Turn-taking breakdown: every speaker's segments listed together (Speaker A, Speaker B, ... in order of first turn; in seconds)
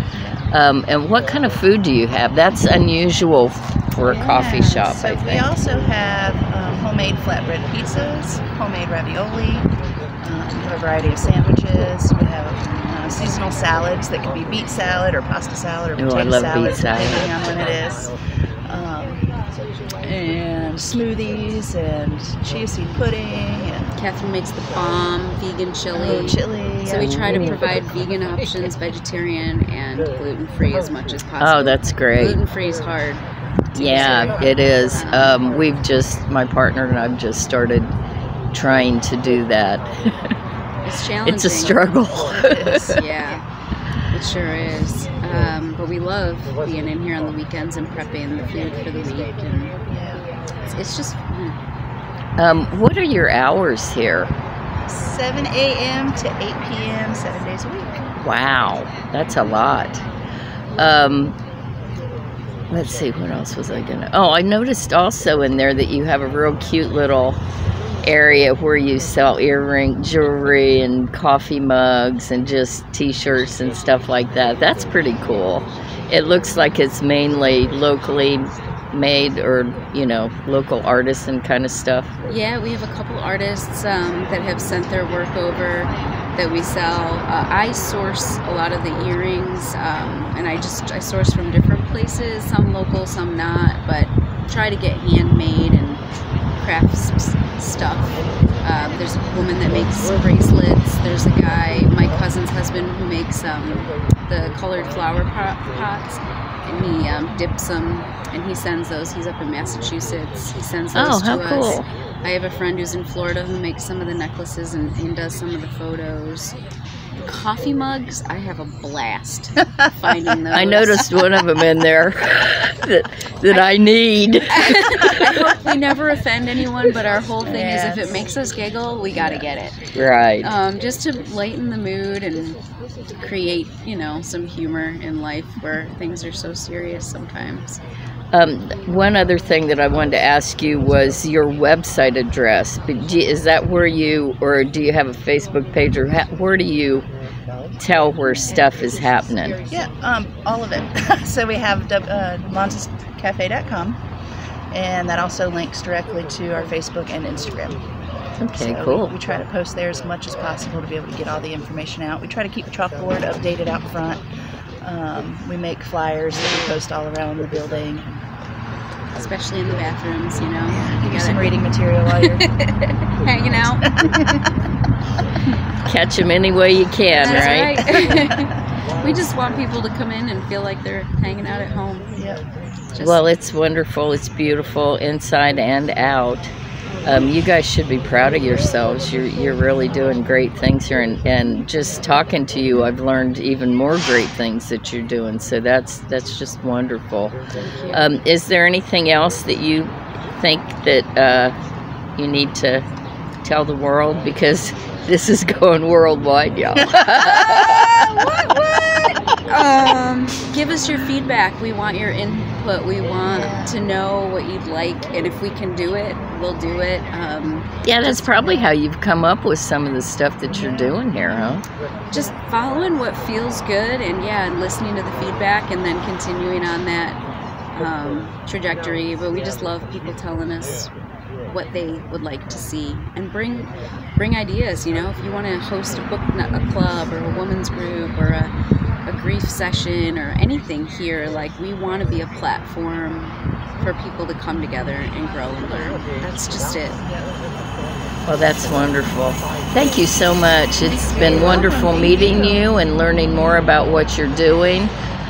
Speaker A: 0.1-0.5, 4.0-9.7, 10.2-18.1, 18.7-19.2, 20.0-23.9, 25.9-27.2, 42.3-42.8, 49.9-50.2, 54.9-58.0, 127.4-128.2, 149.7-154.0, 154.7-157.8, 158.5-164.2, 164.8-168.1, 170.7-172.5, 182.2-182.4, 206.8-208.6, 213.2-213.8, 220.5-220.8, 247.0-247.3, 251.2-252.3
Speaker B: 0.5-5.5, 15.9-17.3, 26.9-27.6, 31.4-32.4, 33.7-37.9, 38.5-40.1, 41.2-43.0, 52.4-54.3, 58.2-60.0, 60.8-61.3, 62.7-67.4, 68.0-82.1, 110.9-111.8, 120.5-125.3, 129.1-129.4, 129.9-130.5, 138.3-147.0, 147.8-149.6, 158.4-159.1, 175.9-177.8, 182.9-186.5, 187.0-197.3, 197.9-201.5, 202.2-202.8, 203.4-208.0, 217.8-221.6, 248.3-254.9
Speaker C: 23.9-33.2, 33.7-35.4, 40.8-41.9, 42.6-43.4, 44.1-49.7, 50.7-51.5, 82.3-96.0, 96.6-116.5, 117.2-121.0, 124.5-129.8, 130.4-132.6, 133.2-137.7, 169.1-171.6, 172.2-173.9, 177.1-182.1, 182.9-183.2, 197.7-198.1, 208.4-218.6, 222.1-227.2, 227.8-230.9, 231.5-238.5, 239.1-247.0, 250.8-252.6